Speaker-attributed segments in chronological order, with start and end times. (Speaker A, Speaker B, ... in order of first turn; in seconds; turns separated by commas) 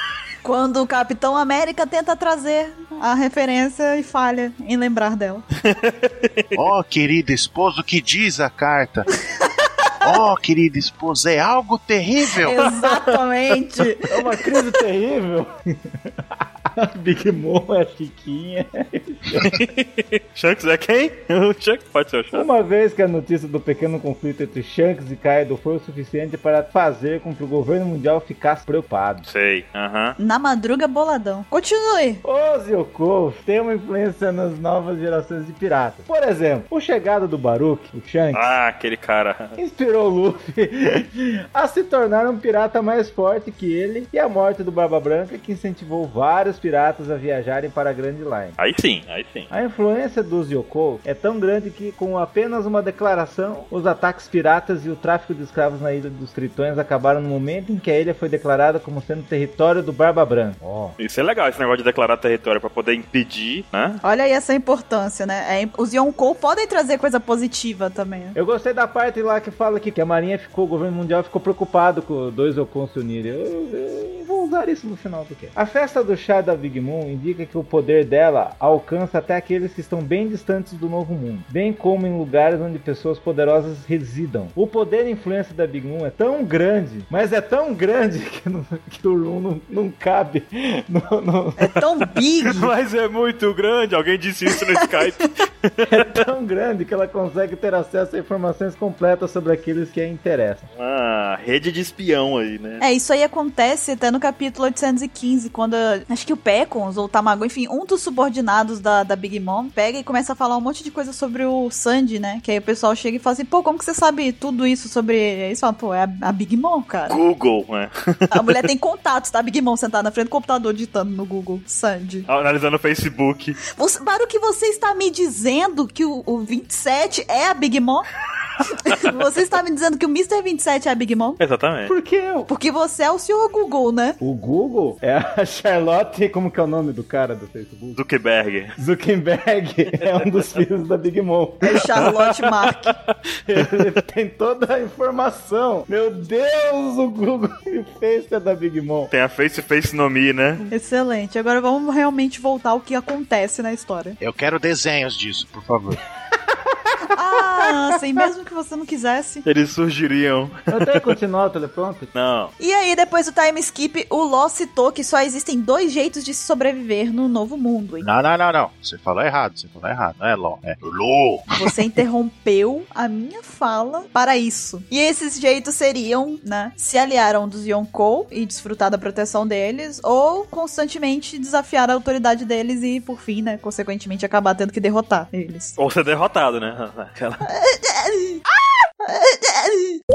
Speaker A: 0.4-5.4, Speaker B: 5.6-6.6, Speaker C: 6.5-9.1, Speaker A: 9.3-9.9, Speaker C: 10.0-12.6, Speaker A: 12.4-14.1, Speaker B: 12.6-13.2, Speaker D: 14.1-19.5, Speaker B: 19.4-22.5, Speaker D: 22.3-29.3, Speaker B: 29.2-30.1, Speaker A: 30.2-32.2, Speaker D: 32.2-38.5, Speaker B: 38.3-39.6, Speaker D: 39.6-48.5, Speaker B: 48.6-49.5, Speaker D: 49.5-60.9, Speaker B: 61.0-64.0, Speaker A: 64.0-68.4, Speaker D: 68.3-91.7, Speaker A: 91.6-92.7, Speaker B: 92.4-96.0, Speaker D: 95.8-100.7, Speaker B: 100.7-102.8, Speaker A: 102.8-117.2, Speaker B: 117.1-118.6, Speaker A: 118.3-122.3, Speaker B: 122.3-123.6, Speaker A: 123.7-128.1, Speaker A: 128.7-131.4, Speaker B: 128.7-129.0, Speaker B: 131.4-131.9, Speaker D: 131.9-132.5, Speaker A: 132.5-134.2, Speaker D: 134.2-138.0, Speaker B: 137.9-138.8, Speaker D: 138.8-141.8, Speaker A: 141.6-142.9, Speaker B: 142.0-142.9, Speaker D: 143.5-149.1, Speaker B: 149.1-150.7, Speaker A: 150.7-154.2, Speaker C: 154.2-156.0, Speaker D: 156.3-157.1, Speaker A: 157.1-159.4, Speaker B: 159.4-161.1, Speaker D: 160.7-162.1, Speaker B: 162.1-162.5, Speaker A: 162.6-168.1, Speaker C: 168.0-171.5, Speaker A: 171.6-185.8, Speaker B: 185.8-187.4, Speaker A: 187.4-188.4, Speaker A: 189.0-190.0